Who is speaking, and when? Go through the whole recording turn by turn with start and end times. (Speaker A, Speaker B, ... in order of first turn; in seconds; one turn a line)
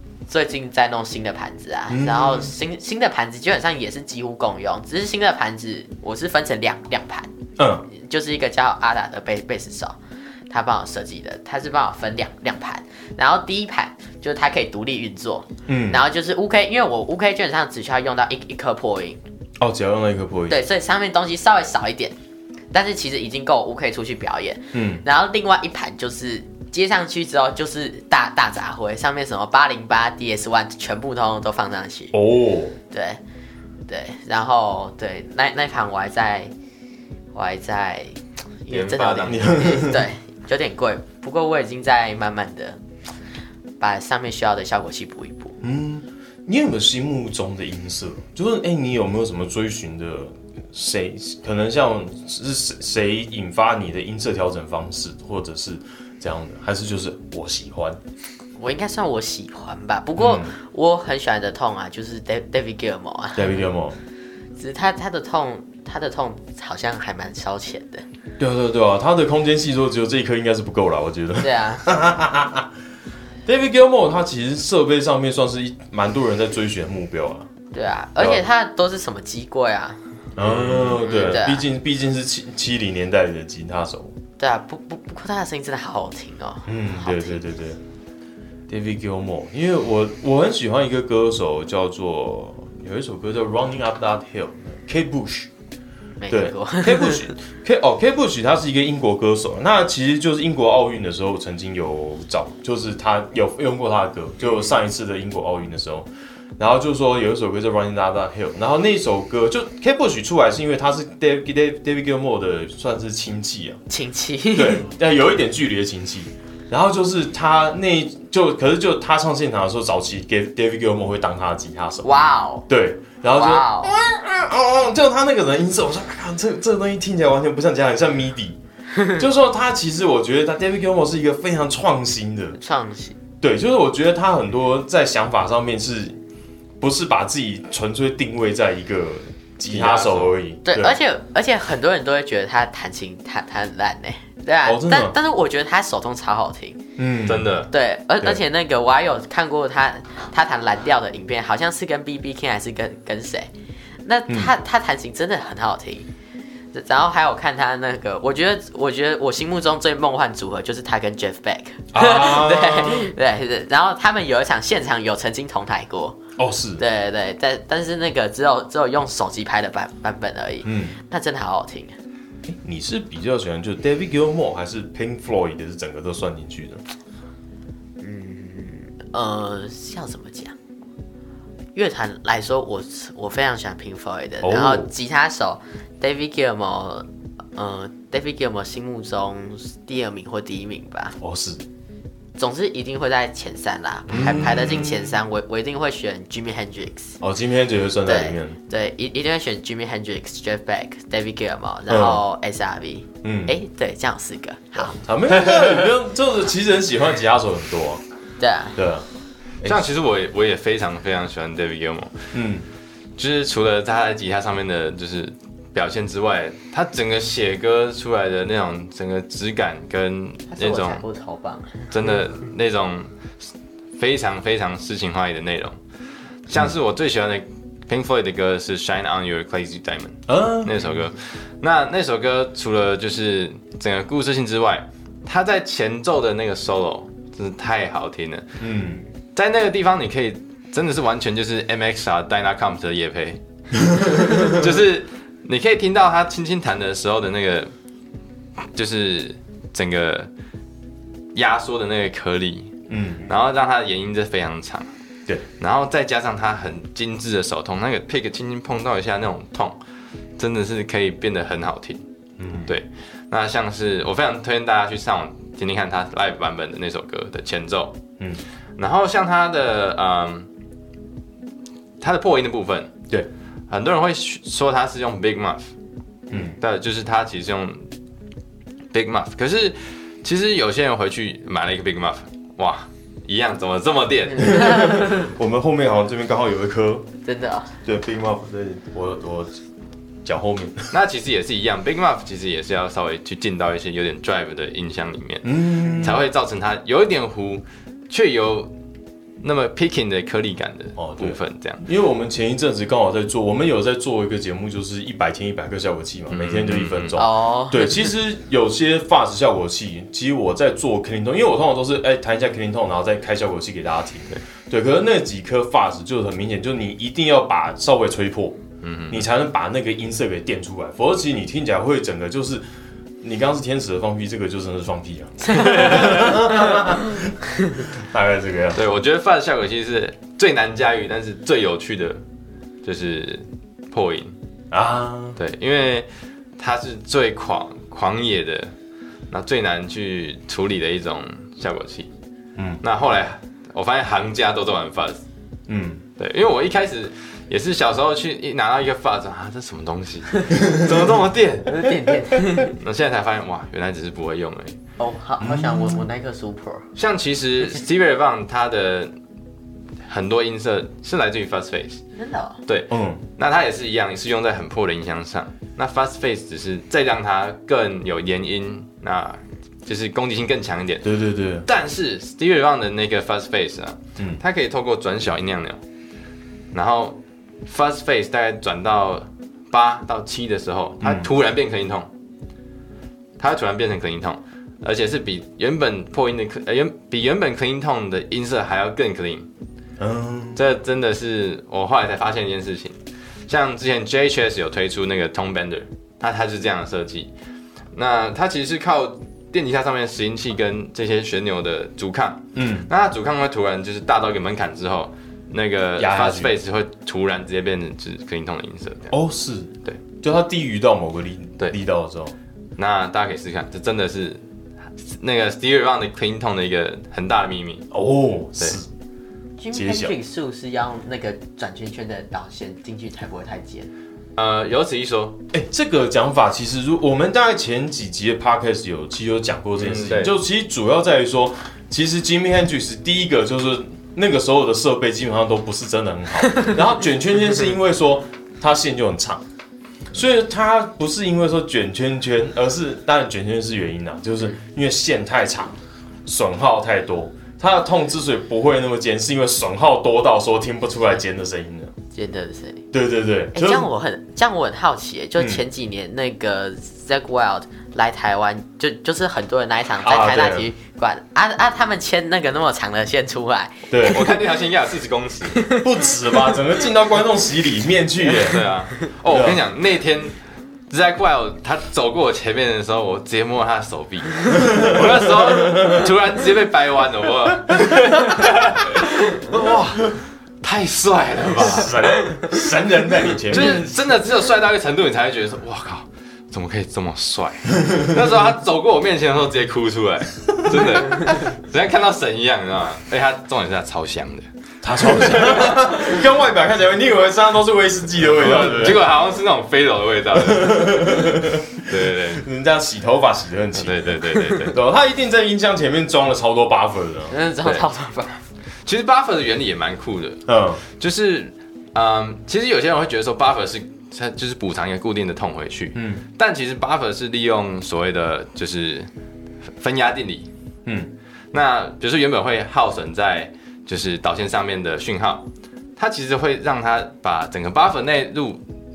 Speaker A: 0.3-7.3
Speaker B: 1.9-2.5
Speaker B: 7.6-7.8
Speaker A: 7.9-10.0
Speaker A: 10.5-19.2
Speaker B: 15.7-16.0
Speaker B: 19.6-20.6
Speaker A: 20.5-22.2
Speaker A: 22.7-32.1
Speaker B: 24.7-25.0
Speaker B: 32.1-32.8
Speaker A: 32.9-33.2
Speaker A: 33.9-36.5
Speaker A: 37.3-42.8
Speaker C: 38.7-39.6
Speaker B: 39.3-40.1
Speaker A: 43.8-45.6
Speaker B: 45.6-58.0
Speaker A: 58.6-63.6
Speaker B: 60.2-60.5
Speaker B: 63.4-64.0
Speaker A: 64.6-68.0
Speaker B: 68.4-72.7
Speaker A: 71.4-71.9
Speaker B: 73.5-77.5
Speaker A: 77.7-80.0
Speaker B: 78.2-78.4
Speaker B: 80.4-84.2
Speaker C: 80.4-80.9
Speaker A: 80.9-81.7
Speaker A: 84.4-87.4
Speaker B: 86.7-87.8
Speaker B: 88.7-95.5
Speaker A: 96.2-97.3
Speaker B: 96.3-113.8
Speaker A: 113.9-114.9
Speaker B: 114.5-128.6
Speaker A: 122.0-122.7
Speaker A: 123.3-123.9
Speaker B: 129.1-132.6
Speaker A: 132.6-133.2
Speaker B: 133.4-136.2
Speaker B: 136.8-141.0
Speaker C: 139.7-140.3
Speaker A: 140.7-146.8
Speaker B: 144.7-145.2
Speaker B: 147.0-147.5
Speaker C: 147.3-147.7
Speaker A: 147.7-153.5
Speaker A: 154.0-156.1
Speaker A: 156.7-166.2
Speaker B: 161.9-163.1
Speaker B: 166.4-166.8
Speaker A: 166.8-171.9
Speaker B: 170.6-171.0
Speaker B: 172.5-176.8
Speaker A: 178.0-180.6
Speaker A: 181.8-191.2
Speaker B: 184.4-184.9
Speaker B: 191.2-191.6
Speaker A: 192.4-197.2
Speaker B: 194.1-195.2
Speaker B: 197.2-198.6
Speaker A: 198.1-205.0
Speaker B: 201.9-202.2
Speaker B: 203.2-203.5
Speaker B: 204.8-208.0
Speaker A: 208.4-208.8
Speaker B: 208.8-209.1
Speaker C: 209.6-212.3
Speaker B: 212.3-212.7
Speaker C: 213.2-221.0
Speaker A: 220.5-221.9
Speaker C: 221.9-223.1
Speaker C: 224.0-225.8
Speaker C: 226.5-238.6
Speaker B: 230.3-230.9
Speaker B: 238.6-239.0
Speaker C: 239.3-247.7
Speaker B: 243.8-244.7
Speaker C: 248.7-250.3
Speaker C: 251.3-252.7
Speaker B: 252.9-253.3
Speaker C: 253.3-254.9
Speaker C: 255.6-259.8
Speaker C: 260.4-262.0
Speaker B: 262.4-262.7
Speaker C: 262.6-268.0
Speaker C: 268.8-270.5
Speaker C: 272.0-272.9
Speaker C: 273.7-275.7
Speaker B: 276.3-276.6
Speaker C: 276.4-277.9
Speaker C: 278.9-284.9
Speaker A: 284.3-285.3
Speaker B: 284.4-287.1
Speaker A: 287.2-287.7
Speaker B: 287.9-289.6
Speaker B: 290.2-290.9
Speaker C: 290.9-298.7
Speaker B: 295.4-296.3
Speaker C: 299.4-301.8
Speaker B: 301.0-322.6
Speaker C: 306.3-307.2
Speaker A: 307.2-308.1
Speaker C: 318.8-319.3
Speaker B: 323.2-328.8
Speaker A: 325.5-326.7
Speaker C: 328.7-332.2
Speaker C: 332.8-334.3
Speaker B: 334.7-335.4
Speaker C: 335.4-338.7
Speaker C: 339.3-342.1
Speaker B: 342.6-342.8
Speaker C: 342.8-345.2
Speaker B: 345.7-346.0
Speaker C: 346.2-351.9
Speaker A: 351.6-352.8
Speaker C: 352.7-354.8
Speaker A: 355.0-356.9
Speaker B: 355.4-356.1
Speaker C: 357.0-359.1
Speaker C: 360.1-362.0
Speaker A: 362.2-362.6
Speaker C: 362.7-371.1
Speaker B: 362.9-363.2
Speaker B: 371.0-371.7
Speaker C: 371.7-375.8
Speaker C: 376.7-382.1
Speaker B: 381.0-381.3
Speaker C: 383.4-389.5
Speaker B: 390.0-390.6
Speaker C: 390.6-397.3
Speaker C: 397.9-409.1
Speaker B: 402.6-402.9
Speaker B: 406.0-406.5
Speaker B: 409.1-412.3
Speaker C: 412.8-414.4
Speaker C: 415.0-417.9
Speaker B: 417.9-418.9
Speaker A: 419.6-423.9
Speaker B: 419.7-420.1
Speaker C: 424.4-425.4
Speaker B: 425.5-439.4
Speaker C: 429.8-430.3
Speaker B: 440.1-451.9
Speaker A: 452.1-452.9
Speaker B: 452.9-453.9
Speaker A: 453.5-464.4
Speaker B: 460.0-460.7
Speaker B: 463.9-464.3
Speaker C: 464.1-465.7
Speaker A: 465.6-465.9
Speaker B: 465.8-468.6
Speaker C: 468.4-470.4
Speaker B: 469.3-469.6
Speaker C: 470.9-482.6
Speaker B: 474.6-476.1
Speaker B: 481.5-483.9
Speaker C: 483.5-494.4
Speaker B: 494.8-499.1
Speaker C: 495.2-495.6
Speaker C: 498.3-502.5
Speaker B: 500.3-504.1
Speaker C: 503.8-504.8
Speaker A: 504.3-504.6
Speaker B: 504.6-507.4
Speaker A: 507.3-508.4
Speaker C: 508.9-519.1
Speaker B: 510.5-510.8
Speaker B: 516.0-516.2
Speaker C: 519.8-520.5
Speaker B: 520.9-521.1
Speaker C: 521.5-525.5
Speaker C: 526.0-528.6